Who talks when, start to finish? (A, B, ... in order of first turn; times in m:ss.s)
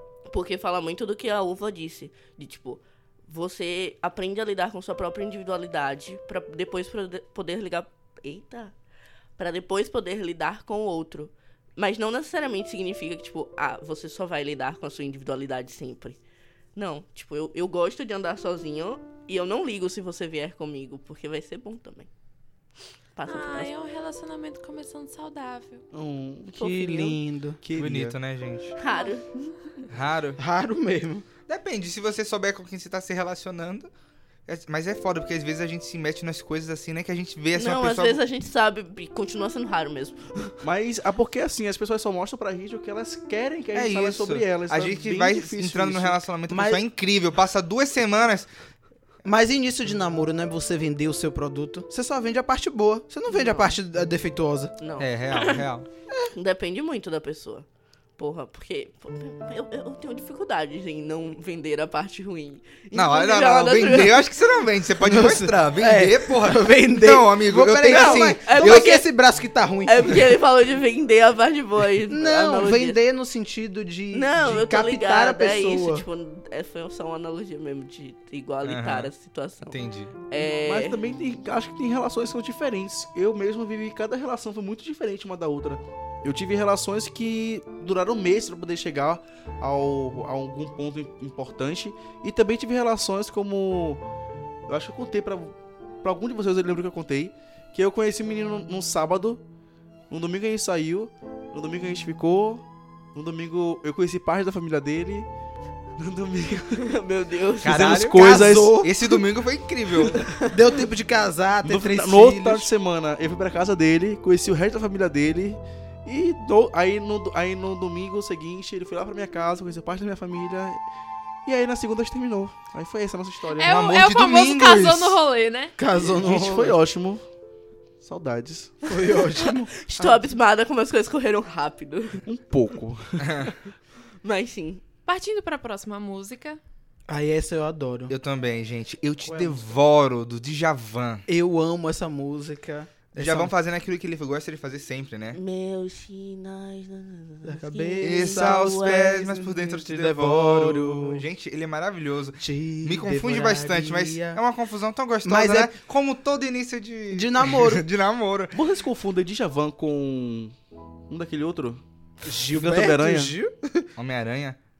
0:00.3-0:08.7 A
0:09.4-0:16.2 A
0:16.7-0:22.1 A
0:23.2-0:23.7 A
0:23.2-0:25.8 B
0:25.9-0:28.2 C
0:26.6-0:27.6 D
0:27.7-0:28.8 E
0:28.8-0:29.2 A
0:28.9-0:29.2 B
0:29.9-0:30.4 E
0:30.4-0:31.2 D
0:31.5-0:33.9 E
0:34.5-0:38.2 E
0:37.6-0:40.6 A
0:40.6-0:46.2 C
0:43.7-0:48.5 E
0:46.5-0:46.8 D
0:49.2-0:54.7 D
0:53.3-0:53.7 A
0:54.8-0:55.6 A
0:55.0-0:55.8 E
0:56.3-0:57.6 A
0:58.2-1:04.3 A
1:02.9-1:08.9 E
1:05.0-1:10.3 D
1:07.9-1:09.1 A
1:09.8-1:13.0 A
1:12.1-1:16.0 D
1:14.1-1:19.8 A
1:18.6-1:19.1 E
1:19.6-1:20.1 E
1:20.3-1:21.0 A
1:20.6-1:34.0 C
1:34.7-1:39.4 C
1:40.1-1:45.3 C
1:46.0-1:46.8 C
1:46.7-1:48.0 A
1:47.6-1:50.3 E
1:47.6-1:48.8 C
1:48.1-1:49.1 D
1:50.5-1:52.7 D
1:51.6-2:00.8 C
2:01.4-2:03.8 C
2:03.6-2:05.7 B
2:03.6-2:05.2 E
2:05.8-2:06.8 D
2:06.1-2:07.2 C
2:08.0-2:08.8 C
2:08.8-2:10.2 D
2:09.4-2:12.2 A
2:12.2-2:13.5 C
2:13.2-2:13.5 E
2:14.2-2:14.8 A
2:15.0-2:16.6 B
2:17.1-2:18.1 D
2:18.1-2:21.2 E
2:19.2-2:19.6 D
2:21.3-2:23.5 D
2:23.1-2:25.4 E
2:25.3-2:29.1 A
2:27.4-2:31.2 D
2:28.0-2:38.5 E
2:32.4-2:34.4 D
2:35.2-2:35.7 D
2:37.1-2:37.8 D
2:38.5-2:40.5 C
2:41.1-2:41.8 C
2:42.2-2:43.9 D
2:42.5-2:43.3 C
2:44.0-2:44.6 E